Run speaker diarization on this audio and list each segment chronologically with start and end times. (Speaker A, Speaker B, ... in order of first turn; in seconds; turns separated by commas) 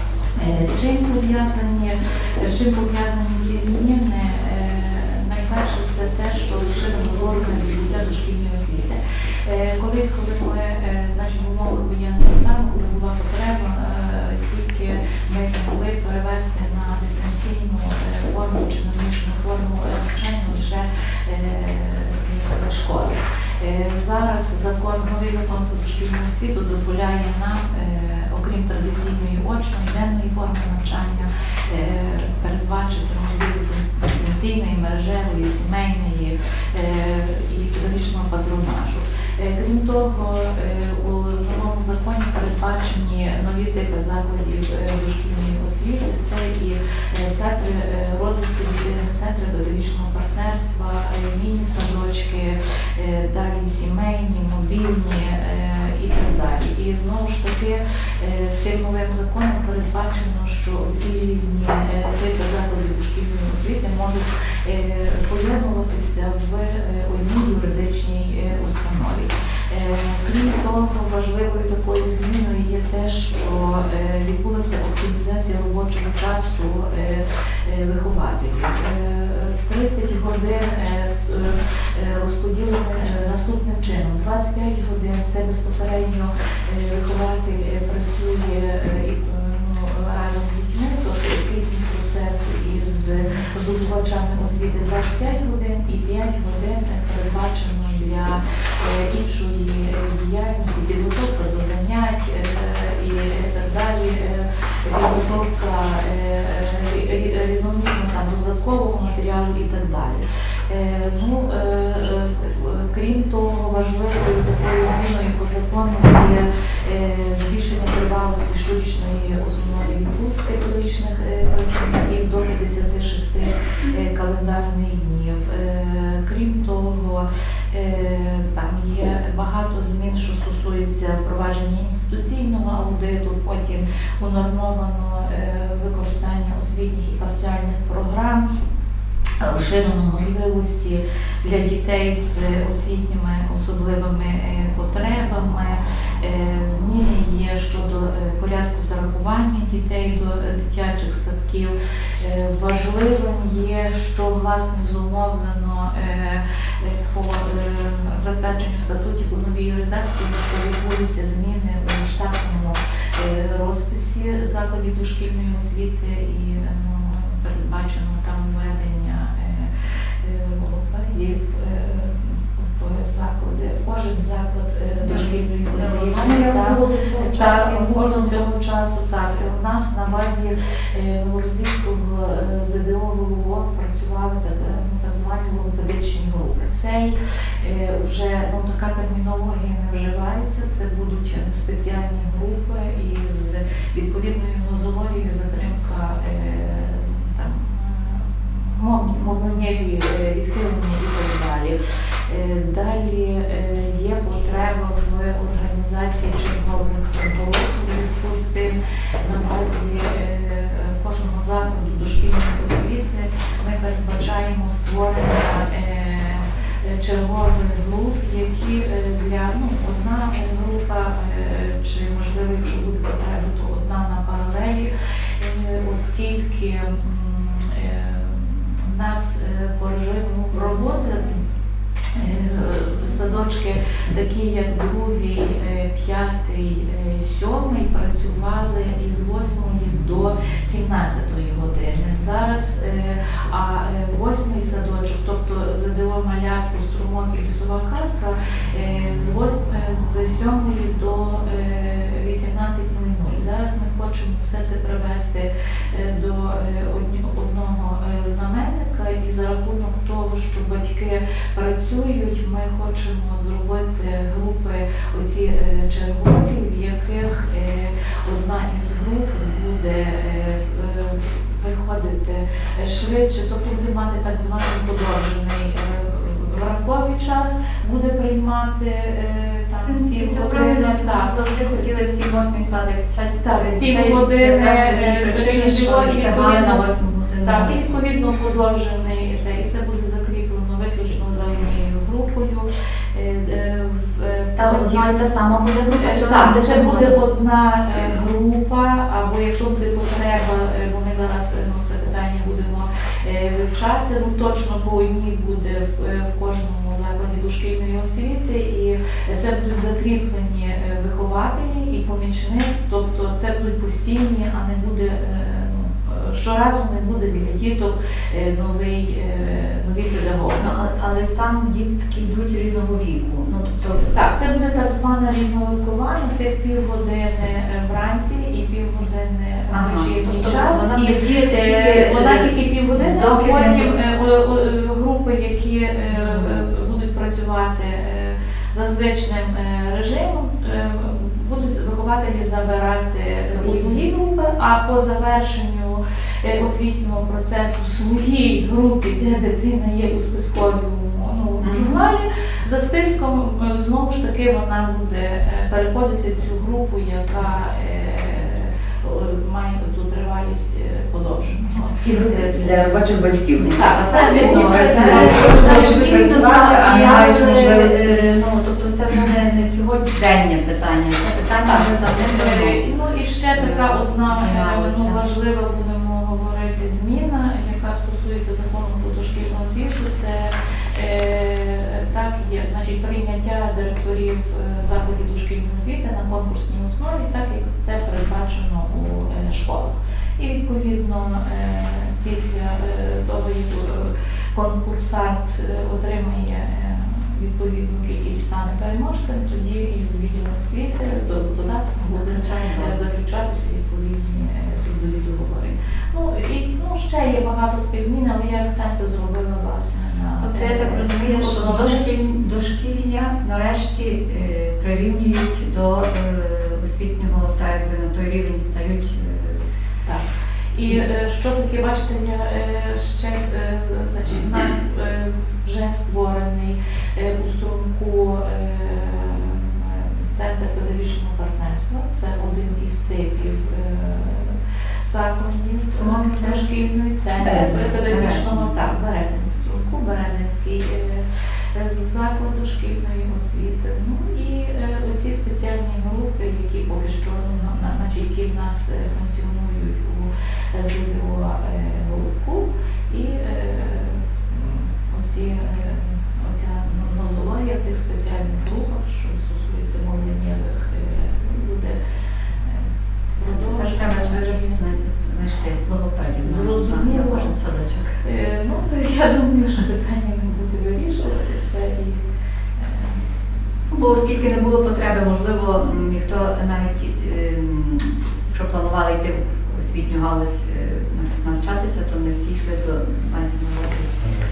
Speaker A: 0.3-138.4, Speaker A: 139.4-231.5, Speaker B: 175.0-178.4, Speaker A: 232.1-281.9, Speaker B: 279.9-288.0, Speaker A: 283.4-286.9, Speaker A: 287.4-295.1, Speaker B: 294.6-297.2, Speaker A: 295.9-320.7, Speaker B: 320.6-324.3, Speaker A: 324.1-363.0, Speaker B: 329.7-333.9, Speaker B: 336.1-336.6, Speaker B: 343.4-344.0, Speaker B: 351.6-352.0, Speaker C: 362.0-368.2, Speaker B: 363.5-372.8, Speaker A: 363.8-367.9, Speaker A: 371.6-412.1, Speaker B: 373.5-375.2, Speaker B: 402.1-403.0, Speaker B: 410.4-419.6, Speaker A: 420.0-462.0, Speaker C: 424.4-424.6, Speaker B: 436.0-436.6, Speaker C: 437.4-437.8, Speaker B: 437.5-438.7, Speaker A: 462.6-464.8, Speaker B: 463.4-468.2, Speaker A: 466.4-467.5, Speaker A: 468.2-472.2, Speaker A: 472.8-473.3, Speaker B: 473.9-484.2